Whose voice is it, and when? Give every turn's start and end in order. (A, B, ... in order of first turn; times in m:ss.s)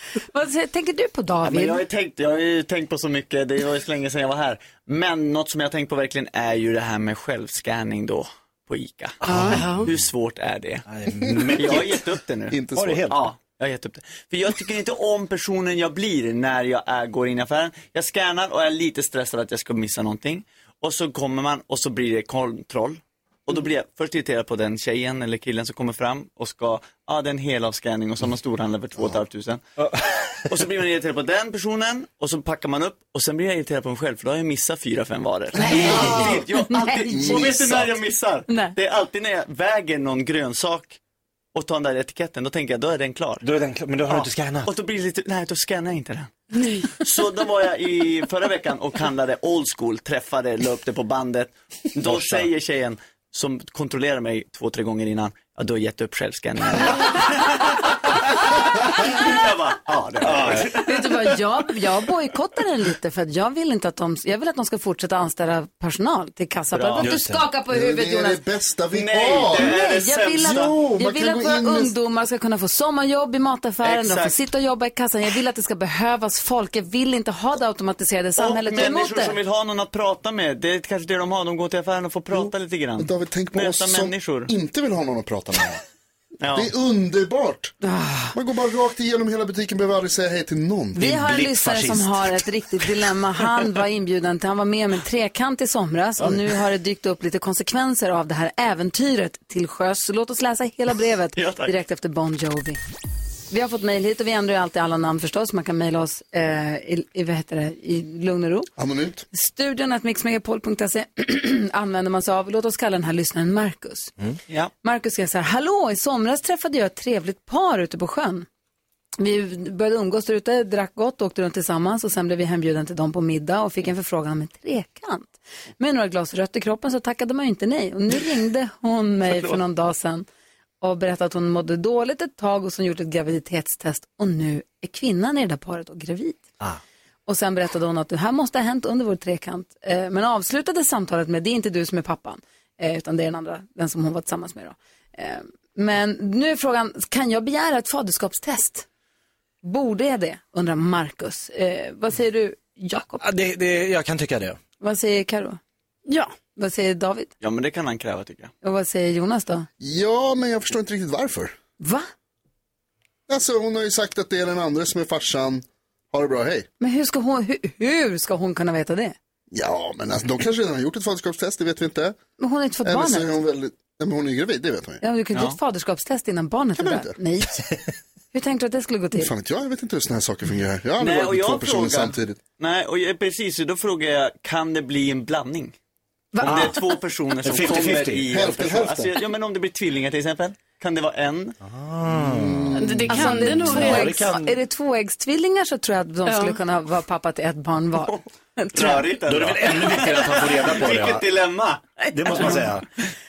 0:00.3-0:01.8 A
0:01.4-0:10.8 B
0:09.3-0:09.9 C
0:09.5-0:09.8 D
0:10.9-0:12.0 C
0:11.5-0:29.6 B
0:12.5-0:13.1 E
0:12.7-0:13.2 C
0:29.8-0:30.4 C
0:30.5-0:41.0 B
0:35.6-0:36.4 E
0:35.6-0:37.4 A
0:37.1-0:37.6 E
0:38.5-0:38.7 A
0:41.5-0:43.4 B
0:43.4-0:44.7 C
0:44.1-0:46.3 B
0:46.9-1:00.8 B
0:52.0-0:52.4 C
1:00.2-1:00.7 C
1:00.7-1:08.4 A
1:06.7-1:07.1 B
1:07.0-1:07.4 C
1:07.7-1:09.7 E
1:08.9-1:10.8 B
1:09.4-1:19.4 A
1:10.4-1:11.9 E
1:13.8-1:14.4 B
1:18.4-1:24.5 B
1:22.3-1:25.8 E
1:26.4-1:26.7 B
1:26.5-1:27.7 E
1:27.8-1:28.4 A
1:28.3-1:31.0 E
1:30.9-1:42.8 A
1:31.0-1:32.4 C
1:41.3-1:41.7 B
1:43.5-1:48.7 A
1:48.8-1:49.2 E
1:49.3-1:54.1 A
1:54.8-1:58.4 A
1:59.2-2:10.2 A
2:09.3-2:09.6 B
2:10.8-2:16.4 A
2:17.3-2:28.8 A
2:29.6-2:33.2 A
2:33.2-2:34.6 C
2:34.8-2:35.6 A
2:36.1-2:36.3 D
2:36.6-2:37.3 A
2:37.4-2:38.5 B
2:38.6-2:39.7 A
2:39.8-2:41.5 E
2:41.8-2:42.1 A
2:43.3-2:46.7 E
2:46.8-2:49.2 A
2:49.5-2:52.2 E
2:52.4-2:53.3 A
2:52.8-2:55.0 E
2:55.0-2:57.6 A
2:56.8-2:57.2 E
2:58.3-2:59.3 A
2:59.1-3:02.4 E
3:01.0-3:05.7 B
3:06.3-3:06.8 A
3:06.4-3:08.2 C
3:06.4-3:11.6 B
3:08.3-3:09.1 E
3:11.6-3:14.5 C
3:12.1-3:13.1 E
3:12.8-3:14.2 D
3:13.1-3:19.0 A
3:16.2-3:16.6 D
3:18.0-3:22.6 B
3:19.2-3:21.3 C
3:22.0-3:22.8 C